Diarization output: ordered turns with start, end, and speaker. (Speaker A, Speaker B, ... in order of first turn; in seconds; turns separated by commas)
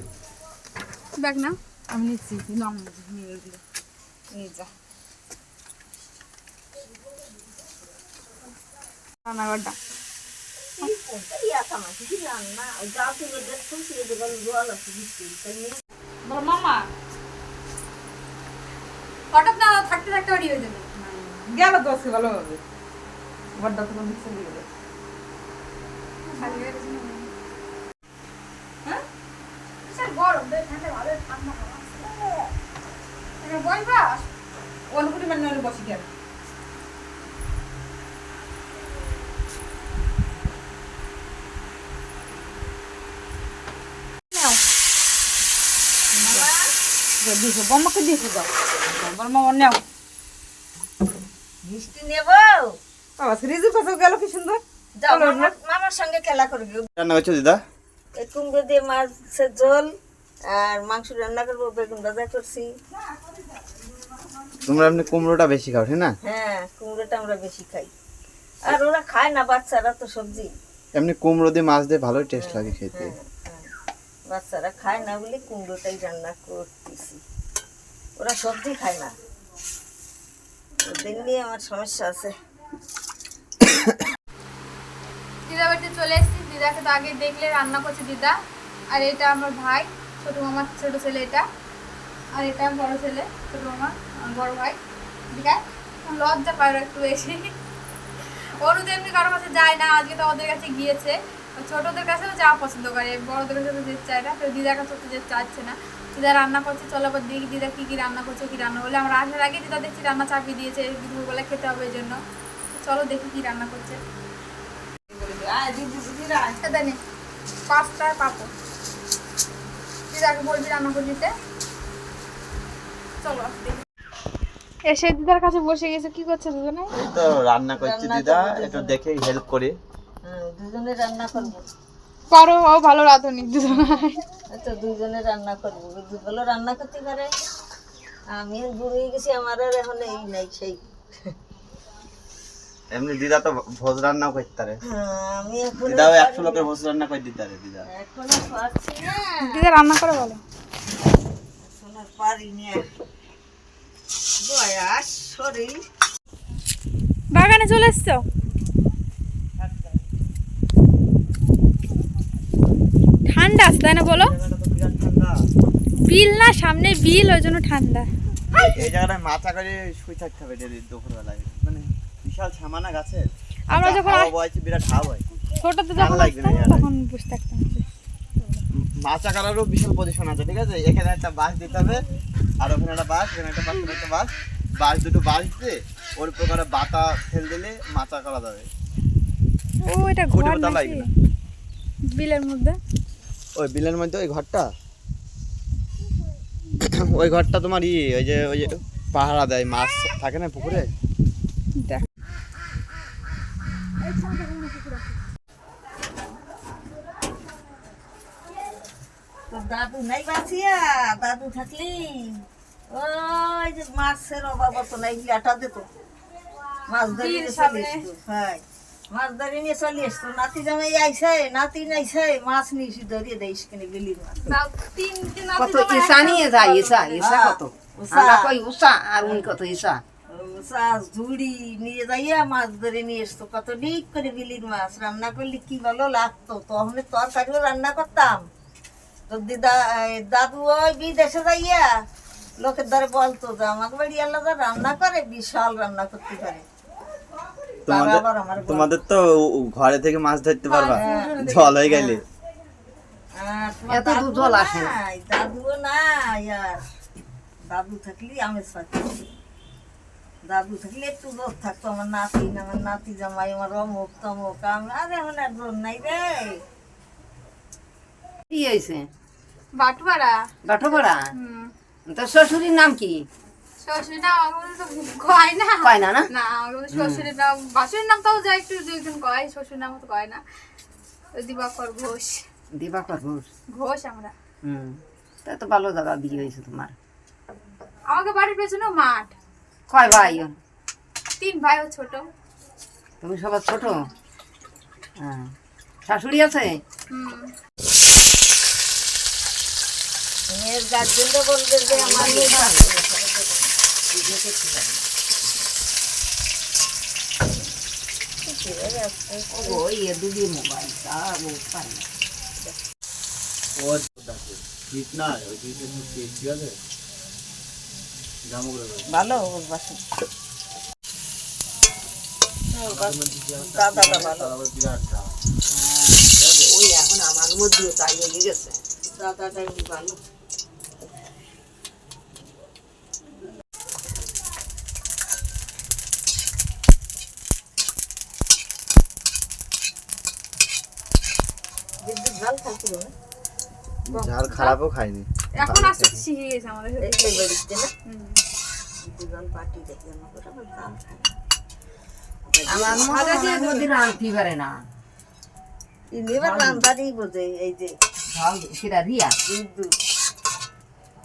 Speaker A: 1.2-1.6, Speaker B: 1.9-3.6, Speaker A: 4.3-4.7, Speaker A: 9.3-9.8, Speaker C: 10.8-15.8, Speaker B: 16.2-16.8, Speaker A: 19.3-20.9, Speaker B: 21.0-22.6, Speaker B: 23.6-24.7, Speaker A: 26.2-27.3, Speaker B: 26.4-26.6, Speaker A: 29.9-32.1, Speaker A: 33.4-34.3, Speaker B: 34.9-36.1, Speaker A: 44.3-44.6, Speaker C: 46.1-46.7, Speaker B: 46.2-46.5, Speaker B: 47.2-49.8, Speaker C: 51.6-52.7, Speaker B: 53.2-55.5, Speaker C: 55.0-56.9, Speaker D: 57.0-57.6, Speaker C: 58.2-59.9, Speaker C: 60.5-62.7, Speaker B: 63.2-63.8, Speaker D: 64.6-66.2, Speaker C: 66.2-67.9, Speaker C: 68.6-70.5, Speaker D: 70.9-73.2, Speaker C: 72.3-73.7, Speaker C: 74.3-77.2, Speaker C: 78.2-79.2, Speaker C: 80.8-82.3, Speaker A: 85.5-88.4, Speaker A: 88.9-91.5, Speaker A: 92.3-94.8, Speaker A: 95.3-97.5, Speaker A: 98.6-112.2, Speaker A: 112.7-114.0, Speaker B: 115.1-116.6, Speaker A: 116.6-117.0, Speaker A: 117.7-118.5, Speaker A: 120.1-121.3, Speaker A: 123.2-123.8, Speaker A: 124.9-126.9, Speaker D: 126.9-129.8, Speaker C: 127.8-129.0, Speaker C: 130.2-131.7, Speaker A: 132.3-134.2, Speaker C: 134.5-137.3, Speaker C: 138.3-140.8, Speaker D: 142.9-144.8, Speaker C: 144.8-146.7, Speaker D: 145.8-147.9, Speaker C: 147.9-149.5, Speaker A: 149.5-150.4, Speaker C: 151.6-152.8, Speaker C: 154.4-155.8, Speaker A: 157.3-158.2, Speaker D: 159.6-159.9, Speaker A: 163.3-164.3, Speaker D: 164.1-165.3, Speaker A: 165.9-168.1, Speaker D: 168.6-175.3, Speaker A: 173.7-174.3, Speaker A: 175.6-177.8, Speaker D: 176.0-176.8, Speaker D: 179.0-182.1, Speaker D: 182.6-188.7, Speaker A: 189.8-191.1, Speaker D: 190.3-191.1, Speaker A: 192.1-192.8, Speaker D: 193.6-194.7, Speaker D: 196.8-200.9, Speaker A: 201.8-202.0, Speaker A: 204.2-204.9, Speaker C: 209.5-215.9, Speaker C: 216.9-224.6, Speaker A: 217.1-218.1, Speaker A: 224.5-227.2, Speaker E: 225.6-230.0, Speaker C: 227.2-228.5, Speaker C: 229.2-229.5, Speaker C: 230.3-238.4, Speaker C: 239.3-241.9, Speaker C: 242.6-246.7, Speaker D: 247.9-252.2, Speaker C: 247.9-248.9, Speaker A: 250.7-251.7, Speaker C: 250.9-252.2, Speaker C: 253.3-256.8, Speaker E: 253.9-254.9, Speaker C: 257.7-259.3, Speaker C: 260.4-266.6, Speaker E: 268.5-269.1, Speaker A: 269.8-270.4, Speaker E: 270.6-271.3, Speaker A: 271.3-271.7, Speaker E: 272.1-273.2, Speaker A: 273.8-280.4, Speaker E: 275.8-276.3, Speaker E: 276.9-277.3, Speaker A: 281.4-282.4, Speaker E: 282.7-283.5, Speaker A: 283.7-284.3, Speaker E: 284.6-286.9, Speaker A: 288.1-289.4, Speaker E: 289.9-290.6, Speaker A: 290.0-290.4, Speaker A: 291.4-292.3, Speaker E: 293.2-294.0, Speaker E: 295.2-295.5, Speaker E: 296.1-296.8, Speaker A: 297.1-297.5, Speaker C: 300.5-303.7, Speaker E: 301.9-302.9, Speaker E: 304.1-305.0, Speaker C: 308.4-309.8, Speaker E: 309.5-312.1, Speaker D: 313.8-316.8, Speaker D: 318.5-319.1, Speaker C: 319.1-320.0, Speaker D: 322.8-325.4, Speaker C: 322.8-324.6, Speaker E: 325.7-328.8, Speaker D: 326.3-326.7, Speaker C: 329.1-330.2, Speaker C: 342.0-343.1, Speaker D: 344.1-346.2, Speaker A: 345.6-347.5, Speaker C: 347.0-347.9, Speaker A: 348.1-348.4, Speaker C: 349.0-351.3, Speaker C: 352.5-353.8, Speaker E: 352.7-354.8, Speaker A: 353.1-353.9, Speaker C: 356.1-357.9, Speaker E: 356.4-356.9, Speaker E: 358.3-359.4, Speaker C: 359.4-359.9